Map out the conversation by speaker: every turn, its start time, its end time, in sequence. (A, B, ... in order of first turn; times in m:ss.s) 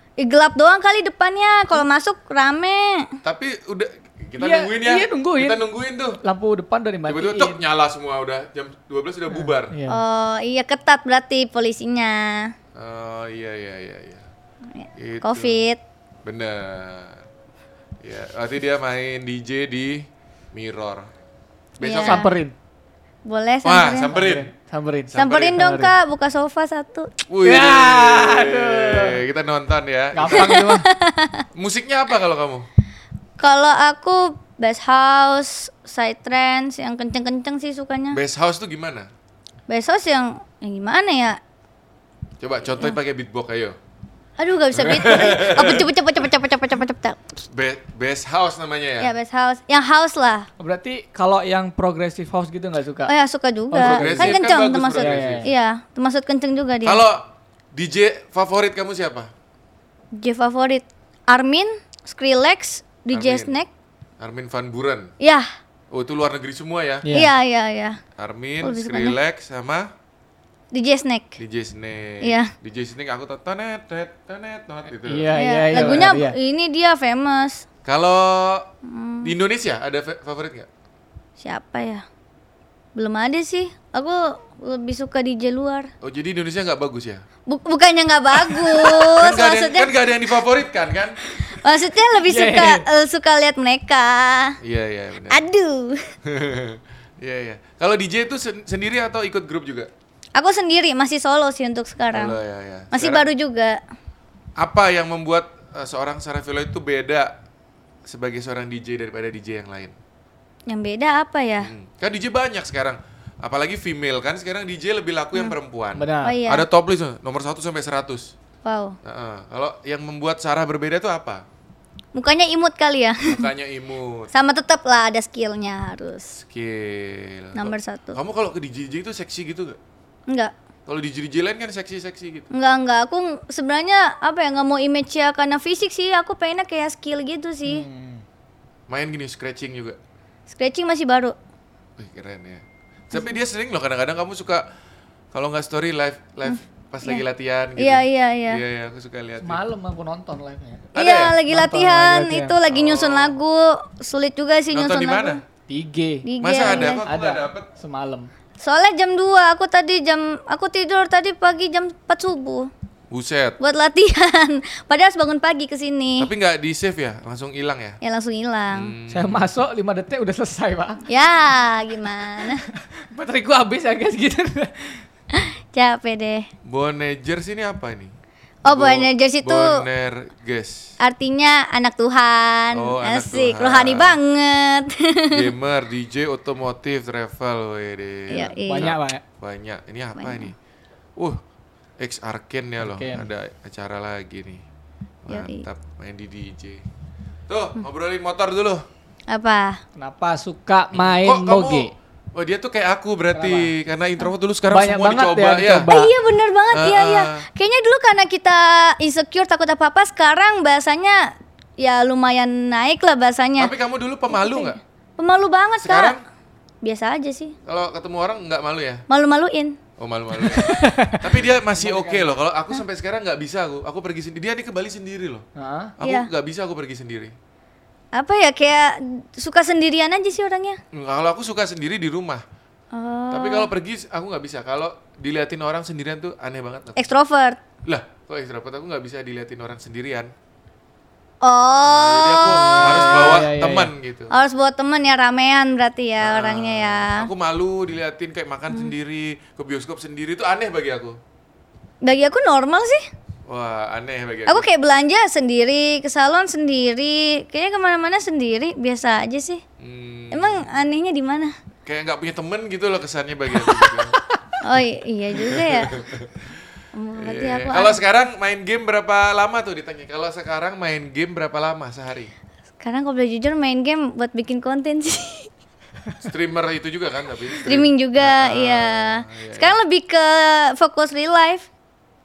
0:00.2-0:03.1 A
0:03.2-0:06.2 B
0:04.4-0:05.6 C
0:06.2-0:07.6 C
0:07.0-0:09.8 B
0:09.3-0:10.0 C
0:09.9-0:12.5 A
0:12.7-0:14.2 B
0:14.8-0:15.8 A
0:15.0-0:15.6 B
0:16.2-0:17.2 B
0:18.0-0:21.1 B
0:21.8-0:22.3 A
0:21.8-0:22.2 B
0:22.0-0:22.5 C
0:23.2-0:24.1 A
0:23.6-0:24.5 B
0:24.1-0:25.9 C
0:25.1-0:25.6 B
0:25.1-0:27.1 A
0:27.3-0:30.6 B
0:27.4-0:29.2 C
0:30.1-0:30.9 C
0:30.3-0:31.4 A
0:31.5-0:32.6 B
0:33.4-0:38.2 A
0:38.1-0:39.1 B
0:39.7-0:41.4 A
0:42.4-0:43.8 B
0:44.4-0:47.2 A
0:44.7-0:45.9 B
0:47.4-0:49.1 B
0:49.0-0:50.5 A
0:50.6-0:53.1 C
0:53.1-0:57.0 A
0:53.7-0:54.4 C
0:53.8-0:55.5 B
0:54.9-0:55.5 C
0:56.8-0:59.3 B
1:00.1-1:03.7 A
1:03.1-1:03.6 B
1:04.2-1:05.1 B
1:05.2-1:05.5 A
1:05.9-1:07.1 B
1:07.0-1:07.3 C
1:07.1-1:08.0 A
1:08.2-1:09.9 B
1:08.6-1:09.2 A
1:10.7-1:11.4 A
1:11.4-1:16.1 B
1:12.2-1:12.5 A
1:15.0-1:16.4 C
1:15.3-1:17.6 A
1:17.8-1:18.7 B
1:18.8-1:19.3 A
1:19.2-1:20.7 B
1:21.4-1:22.0 A
1:23.0-1:25.9 A
1:26.0-1:27.2 B
1:27.5-1:30.0 A
1:28.4-1:31.2 B
1:31.5-1:34.6 A
1:32.1-1:32.8 C
1:34.6-1:35.4 B
1:35.3-1:36.1 A
1:36.2-1:39.9 B
1:40.4-1:42.4 A
1:42.1-1:43.3 B
1:42.9-1:43.8 A
1:44.6-1:47.4 B
1:48.0-1:49.9 B
1:50.7-1:51.7 A
1:51.6-1:58.3 B
1:55.9-1:56.4 C
1:56.2-1:56.6 A
1:58.6-1:59.0 A
1:59.0-2:01.4 B
2:02.1-2:03.4 A
2:03.3-2:04.3 B
2:04.3-2:06.4 A
2:06.4-2:09.8 B
2:07.5-2:08.2 A
2:10.9-2:12.5 B
2:12.5-2:17.8 A
2:17.6-2:18.2 C
2:18.9-2:20.0 B
2:20.5-2:21.3 A
2:22.0-2:24.6 B
2:25.3-2:29.6 B
2:26.4-2:27.2 A
2:27.8-2:28.6 A
2:29.4-2:30.9 C
2:30.9-2:31.4 B
2:31.0-2:35.4 A
2:31.5-2:32.6 C
2:32.7-2:33.4 B
2:34.7-2:35.4 B
2:35.7-2:38.3 C
2:36.2-2:37.0 A
2:36.4-2:37.7 B
2:38.6-2:42.7 A
2:43.1-2:43.6 B
2:43.6-2:46.3 A
2:46.2-2:48.0 B
2:48.0-2:48.9 A
2:48.7-2:49.5 B
2:49.1-2:51.0 C
2:51.1-2:52.6 A
2:52.7-2:55.0 C
2:55.3-2:56.5 A
2:56.6-2:58.1 B
2:58.6-2:59.8 A
2:58.6-3:00.9 B
3:01.0-3:05.5 A
3:02.7-3:04.2 B
3:05.3-3:10.5 B
3:08.3-3:09.0 A
3:08.7-3:09.2 C
3:10.2-3:10.5 A
3:12.0-3:14.6 B
3:12.8-3:13.2 C
3:15.2-3:16.8 B
3:15.3-3:15.6 A
3:17.5-3:18.8 B
3:19.3-3:19.8 A
3:20.0-3:21.9 C
3:20.9-3:25.9 B
3:23.3-3:23.7 C
3:24.7-3:26.1 C
3:25.9-3:33.7 A
3:26.7-3:27.4 B
3:33.6-3:34.8 B
3:34.3-3:36.2 A
3:35.8-3:36.2 B
3:36.8-3:37.5 A
3:37.6-3:39.0 B
3:39.1-3:39.8 A
3:40.0-3:45.4 B
3:40.5-3:40.8 A
3:40.5-3:42.3 C
3:45.6-3:45.9 C
3:46.0-3:47.3 B
3:46.0-3:46.3 A
3:48.1-3:50.8 A
3:50.9-3:52.4 B
3:52.9-3:53.7 A
3:53.3-3:57.0 B
3:57.0-3:57.6 A
3:57.8-4:00.3 B
4:01.4-4:03.4 A
4:01.8-4:04.3 B
4:02.5-4:03.9 C
4:04.3-4:07.3 A
4:06.2-4:11.2 B
4:12.0-4:13.0 A
4:13.5-4:14.7 B
4:14.5-4:19.6 A
4:19.8-4:20.7 B
4:20.3-4:21.5 A
4:21.8-4:24.2 B
4:23.6-4:23.9 C
4:24.6-4:25.9 A
4:25.3-4:26.6 B
4:26.9-4:28.0 A
4:27.2-4:32.3 B
4:32.8-4:35.5 A
4:36.2-4:39.8 B
4:37.5-4:41.7 A